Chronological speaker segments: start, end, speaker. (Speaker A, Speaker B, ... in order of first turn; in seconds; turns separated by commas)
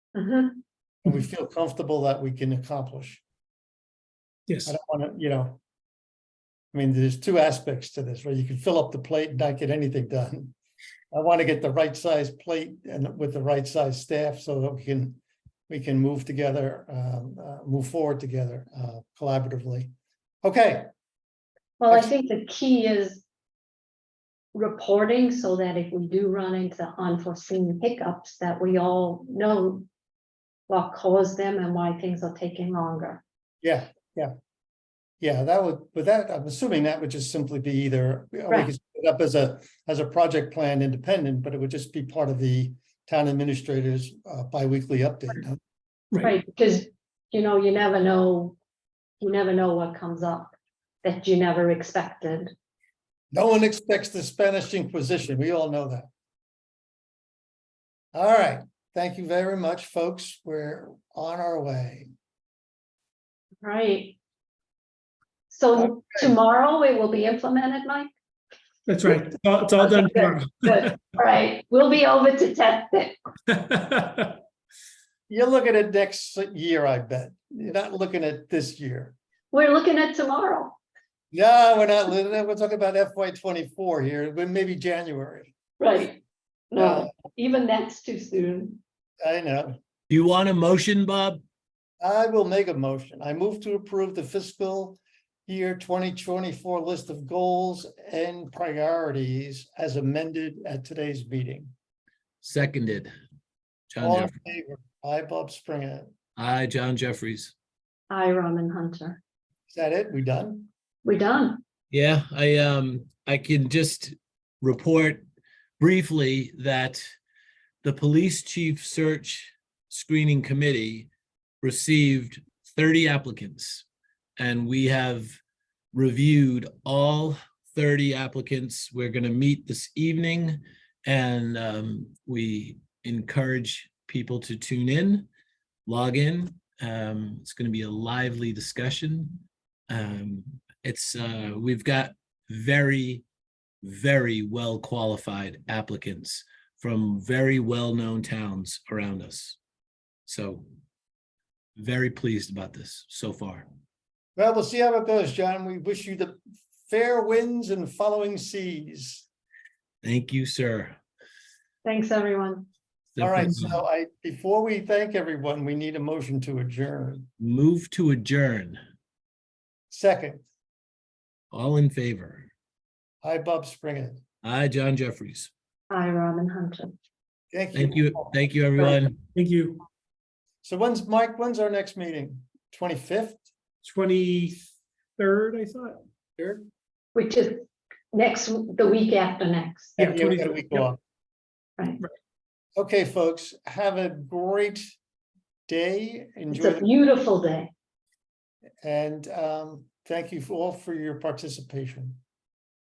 Speaker A: 0.1-0.6, Speaker B: 1.0-3.2, Speaker C: 4.5-4.7, Speaker B: 4.7-5.6, Speaker B: 6.7-10.5, Speaker B: 11.1-19.9, Speaker B: 20.4-20.9, Speaker A: 21.8-23.2, Speaker A: 24.5-29.9, Speaker A: 30.7-33.2, Speaker B: 33.6-34.3, Speaker B: 35.2-45.6, Speaker A: 46.2-48.6, Speaker A: 49.2-52.5, Speaker B: 53.3-56.1, Speaker B: 58.1-62.1, Speaker A: 63.6-64.2, Speaker A: 65.5-68.1, Speaker B: 65.8-66.3, Speaker C: 68.9-71.0, Speaker A: 69.8-73.1, Speaker C: 73.5-74.4, Speaker B: 75.3-79.2, Speaker A: 79.5-80.8, Speaker B: 81.3-85.5, Speaker A: 85.8-86.2, Speaker A: 86.7-88.8, Speaker B: 86.8-87.1, Speaker B: 89.2-89.8, Speaker D: 90.1-91.4, Speaker B: 92.0-101.7, Speaker D: 102.4-103.1, Speaker D: 103.9-104.3, Speaker B: 104.0-106.1, Speaker D: 106.3-107.5, Speaker A: 108.1-109.2, Speaker B: 109.7-110.7, Speaker A: 111.0-111.6, Speaker D: 111.9-115.2, Speaker D: 115.8-117.0, Speaker D: 117.8-121.1, Speaker D: 121.6-123.9, Speaker D: 124.4-125.4, Speaker D: 125.9-135.3, Speaker D: 135.8-143.2, Speaker D: 143.8-149.6, Speaker D: 150.2-150.6, Speaker D: 151.8-153.7, Speaker B: 154.3-159.3, Speaker D: 160.0-161.0, Speaker A: 161.8-162.7, Speaker D: 163.2-163.8, Speaker B: 163.2-167.3, Speaker D: 167.4-168.8, Speaker B: 169.9-170.4, Speaker D: 171.5-172.5, Speaker B: 173.2-174.2, Speaker D: 174.4-175.5, Speaker A: 175.9-177.0, Speaker B: 177.5-178.3, Speaker D: 177.7-179.2, Speaker C: 179.3-179.8, Speaker B: 180.6-183.5, Speaker C: 183.8-184.7, Speaker C: 185.2-186.0, Speaker B: 186.4-186.7, Speaker A: 187.1-189.9, Speaker B: 190.0-191.0, Speaker C: 190.0-190.9, Speaker B: 192.8-194.8, Speaker B: 195.7-196.9, Speaker A: 196.5-197.7, Speaker B: 198.8-202.2